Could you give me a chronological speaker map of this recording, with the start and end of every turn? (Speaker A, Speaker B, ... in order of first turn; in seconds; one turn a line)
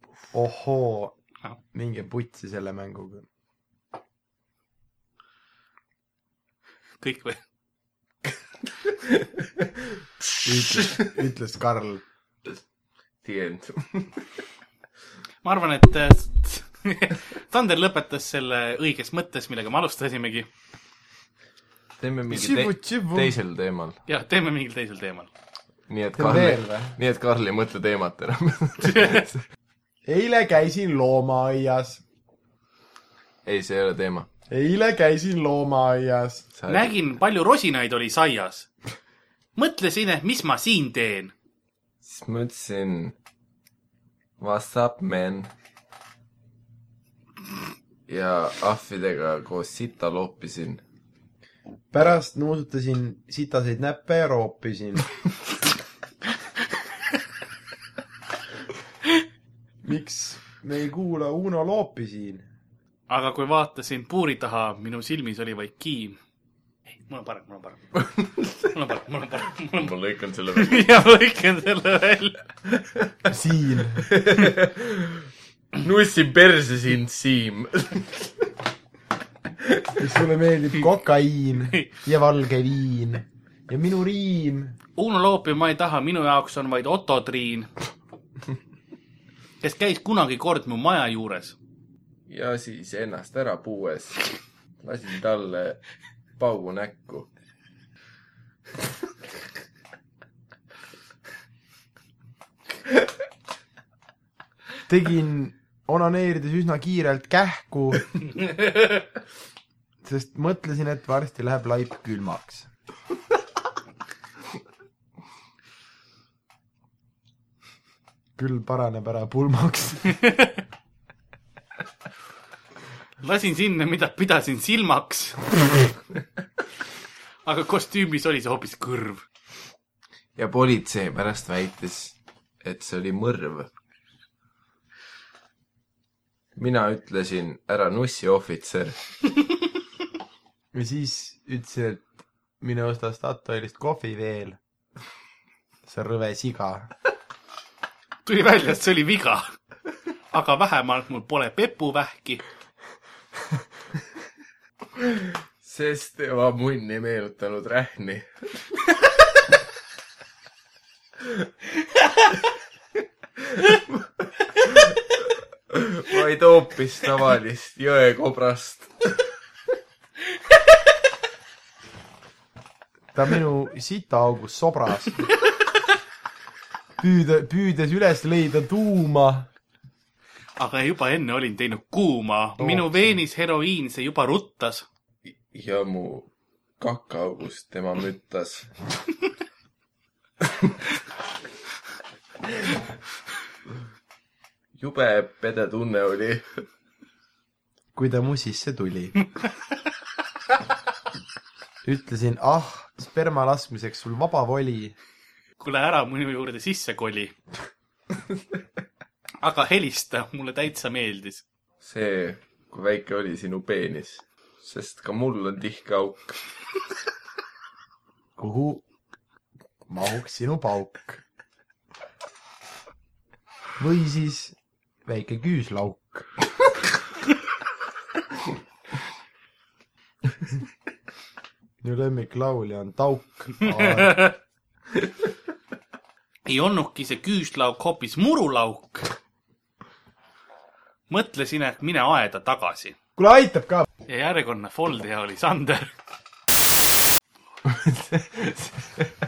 Speaker A: 0.3-1.1
Speaker A: 1.7-3.3
Speaker B: 7.0-7.4
Speaker C: 8.9-9.7
Speaker A: 10.4-12.0
Speaker C: 13.2-14.2
Speaker B: 15.4-20.5
Speaker C: 22.0-24.0
Speaker A: 22.3-23.3
Speaker B: 24.1-25.3
Speaker C: 25.9-29.4
Speaker A: 26.1-26.9
Speaker A: 30.0-32.0
Speaker C: 33.4-34.3
Speaker A: 34.5-36.5
Speaker C: 36.5-36.9
Speaker B: 36.7-38.7
Speaker B: 39.5-41.3
Speaker C: 42.0-43.1
Speaker C: 44.4-45.5
Speaker C: 48.1-50.8
Speaker A: 51.9-55.1
Speaker A: 59.8-62.5
Speaker B: 63.1-66.2
Speaker B: 67.0-68.0
Speaker B: 68.7-69.9
Speaker C: 69.7-70.9
Speaker B: 70.5-72.4
Speaker A: 73.3-74.1
Speaker C: 74.0-75.3
Speaker C: 75.8-78.3
Speaker C: 79.6-79.9
Speaker A: 80.0-84.8
Speaker B: 85.0-87.7
Speaker B: 89.6-91.5
Speaker C: 92.3-94.3
Speaker C: 94.8-95.8
Speaker C: 96.4-97.3
Speaker A: 104.9-108.1
Speaker A: 110.0-112.7
Speaker A: 118.4-120.2
Speaker B: 123.2-125.4
Speaker B: 127.4-129.2
Speaker C: 130.3-133.7
Speaker C: 136.6-139.0
Speaker A: 140.7-144.6
Speaker A: 145.8-146.9
Speaker B: 148.2-149.6
Speaker B: 150.3-152.4
Speaker C: 155.0-159.0
Speaker C: 163.4-169.2
Speaker A: 173.1-175.3
Speaker A: 177.0-179.5
Speaker B: 180.6-184.9
Speaker A: 182.6-183.1
Speaker C: 185.2-186.3
Speaker C: 186.8-188.7
Speaker C: 190.4-190.7
Speaker C: 194.8-196.7
Speaker A: 197.9-199.1
Speaker A: 201.8-204.9
Speaker B: 205.6-207.3
Speaker B: 209.4-211.4
Speaker C: 211.8-216.4
Speaker A: 218.4-218.8
Speaker A: 219.9-221.2
Speaker A: 223.8-226.4
Speaker A: 231.8-234.3
Speaker B: 233.8-234.3
Speaker B: 236.4-239.1
Speaker B: 241.1-242.9
Speaker A: 243.2-243.8
Speaker B: 244.1-245.9
Speaker C: 247.7-249.1